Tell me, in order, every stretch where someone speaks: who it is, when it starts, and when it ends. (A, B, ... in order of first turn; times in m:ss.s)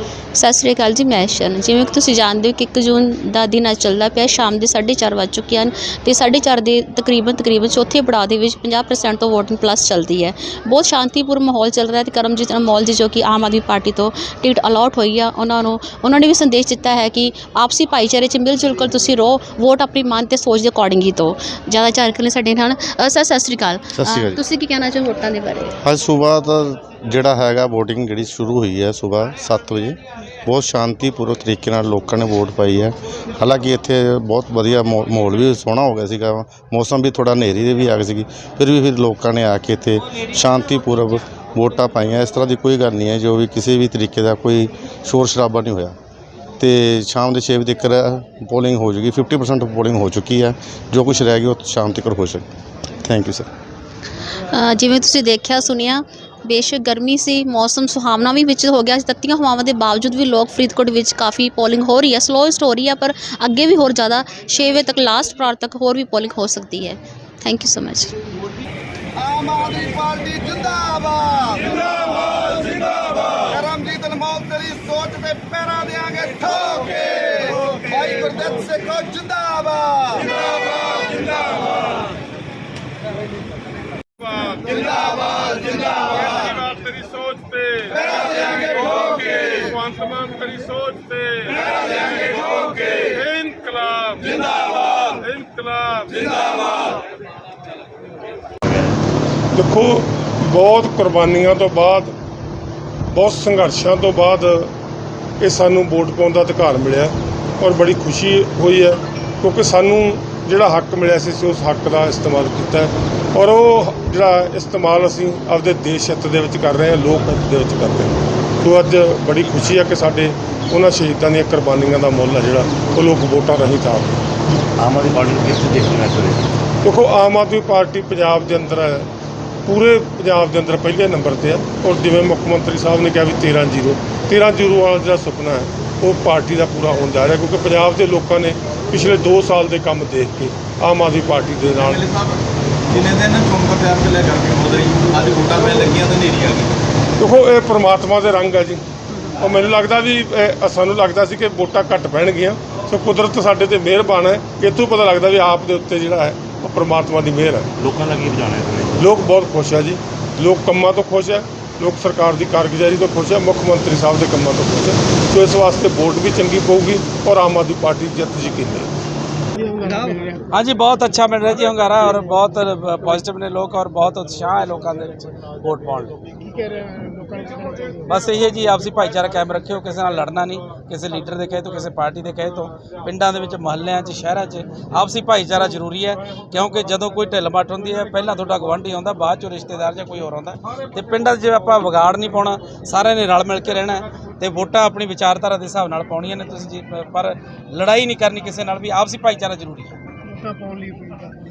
0:00.3-0:25.8 A
0:23.9-0:24.4 B
0:25.8-0:46.0 B
0:46.6-0:52.5 B
0:53.0-0:53.5 B
0:54.4-1:08.1 A
1:09.2-1:21.2 C
1:24.2-1:36.4 D
1:39.5-1:42.1 D
1:43.1-1:44.7 D
1:45.4-2:04.2 D
2:04.8-2:06.5 E
2:06.8-2:09.1 D
2:09.6-2:22.0 D
2:21.7-2:26.7 F
2:27.2-2:28.8 D
2:29.4-2:37.7 D
2:37.8-2:39.0 E
2:39.0-2:48.9 D
2:49.6-2:50.4 C
2:50.5-2:56.2 G
2:56.5-2:58.0 C
2:58.0-3:20.0 G
3:20.3-3:21.3 C